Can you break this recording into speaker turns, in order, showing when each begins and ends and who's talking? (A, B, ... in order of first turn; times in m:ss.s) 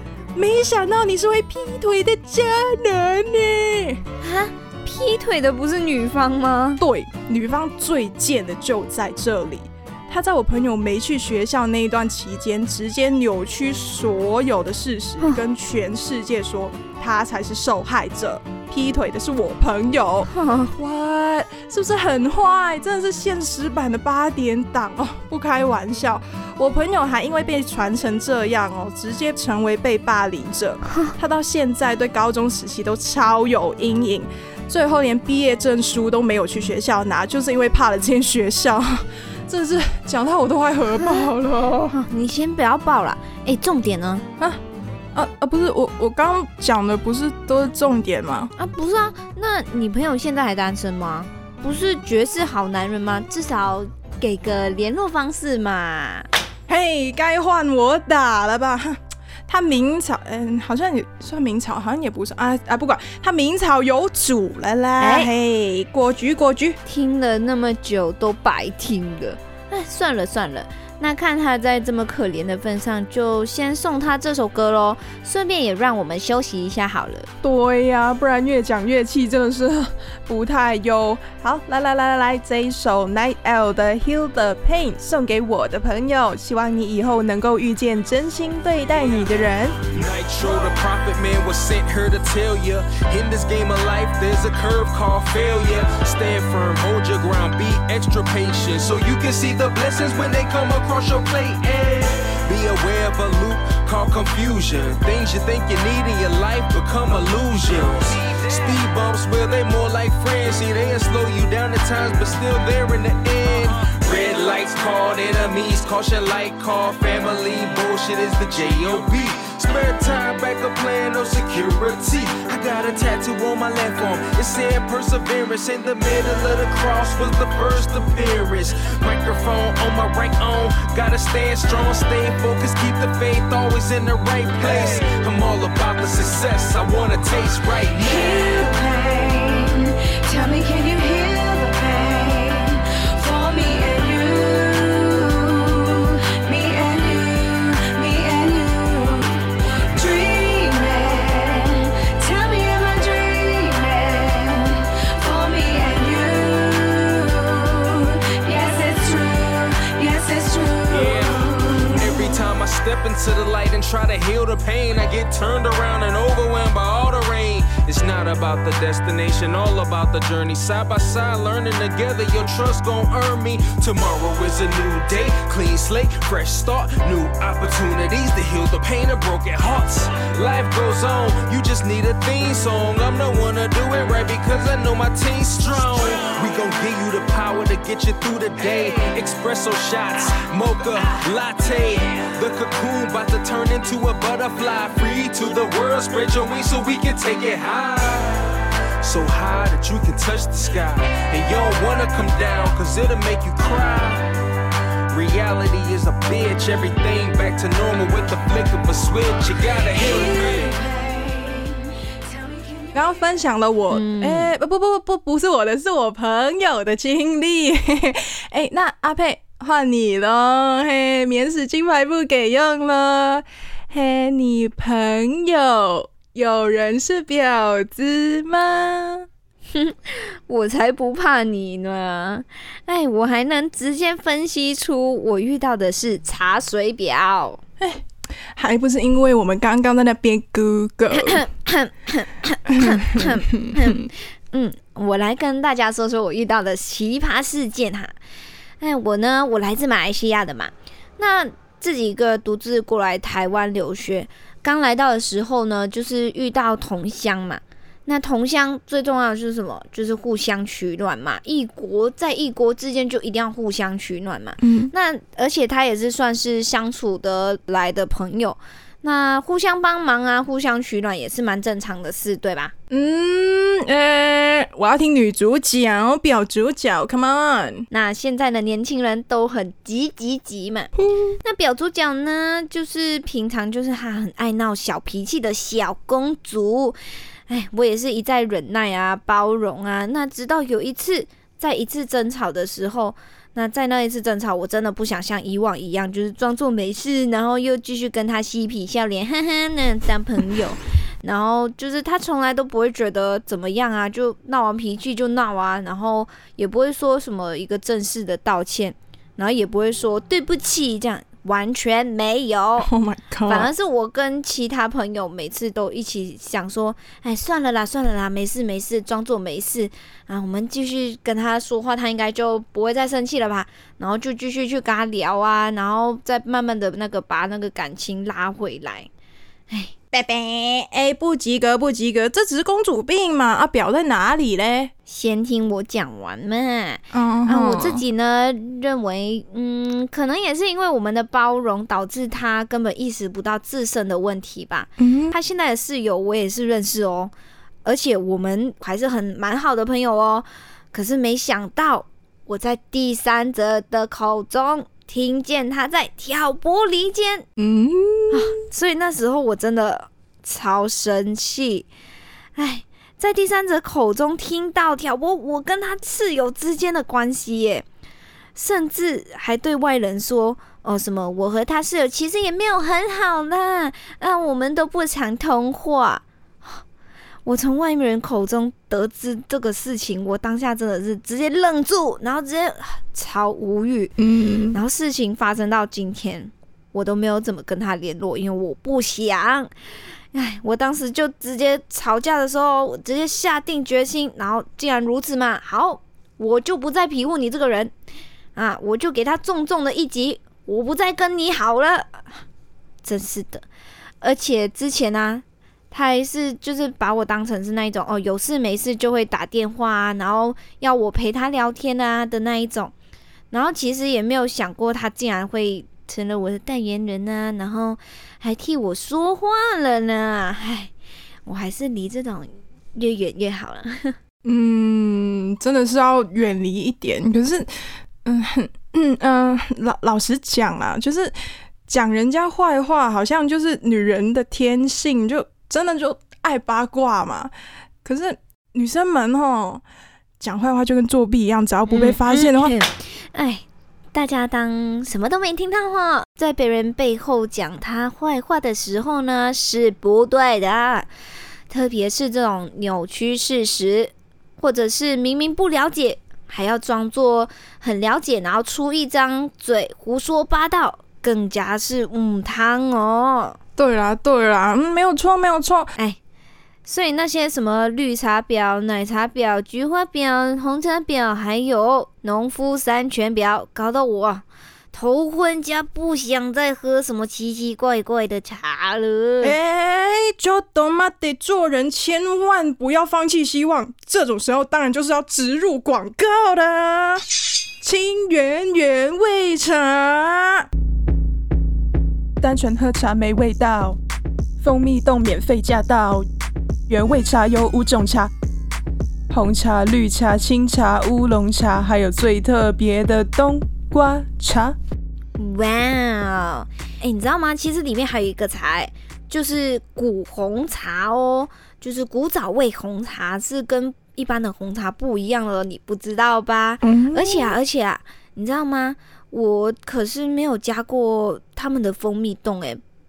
0:00.3-0:04.0 A
0:04.2-0:06.8 B
0:06.8-0:42.0 A
0:20.3-0:20.7 B
0:41.9-0:44.2 B
0:45.1-0:48.5 A
0:48.6-0:56.3 B
0:56.7-1:06.8 A
1:05.0-1:05.3 B
1:06.8-1:17.3 B
1:17.4-1:29.8 A
1:29.9-2:18.6 C
2:17.9-2:42.4 D
2:40.9-3:18.5 C
3:19.0-3:24.3 C
3:25.1-3:30.7 C
3:29.9-3:33.1 D
3:32.9-3:49.3 A
3:33.9-3:34.5 B
3:49.7-3:57.6 B
3:58.6-4:01.4 A
4:01.1-4:08.1 B
4:02.7-4:04.0 A
4:08.8-4:32.7 B
4:24.6-4:24.9 A
4:32.9-4:37.9 A
4:37.9-4:40.9 B
4:41.4-5:12.9 B
5:12.8-5:13.7 A
5:13.5-5:29.1 B
5:30.1-5:34.9 A
5:35.1-5:47.3 B
5:37.1-5:38.0 A
5:45.0-5:45.4 A
5:47.8-5:57.4 B
5:57.6-5:58.5 A
5:58.3-6:01.9 B
6:02.6-6:07.8 B
6:08.6-6:16.8 B
6:17.4-6:24.1 B
6:24.2-6:24.8 A
6:24.7-6:29.7 B
6:30.3-6:37.9 B
6:38.5-6:42.4 B
6:43.0-6:43.6 B
6:44.2-6:52.9 B
6:53.5-7:00.9 B
7:01.4-7:04.2 B
7:04.4-7:07.7 A
7:08.2-7:11.3 A
7:11.9-7:17.5 A
7:18.0-7:19.8 A
7:20.4-7:22.7 A
7:21.9-7:31.1 B
7:31.7-7:43.6 B
7:43.8-7:45.9 A
7:46.8-7:59.6 B
7:59.4-8:07.3 A
8:07.8-8:10.7 A
8:12.4-8:14.0 A
8:14.6-8:16.2 A
8:16.9-8:18.3 A
8:19.3-8:24.7 A
8:25.4-8:42.8 B
8:36.8-8:37.5 A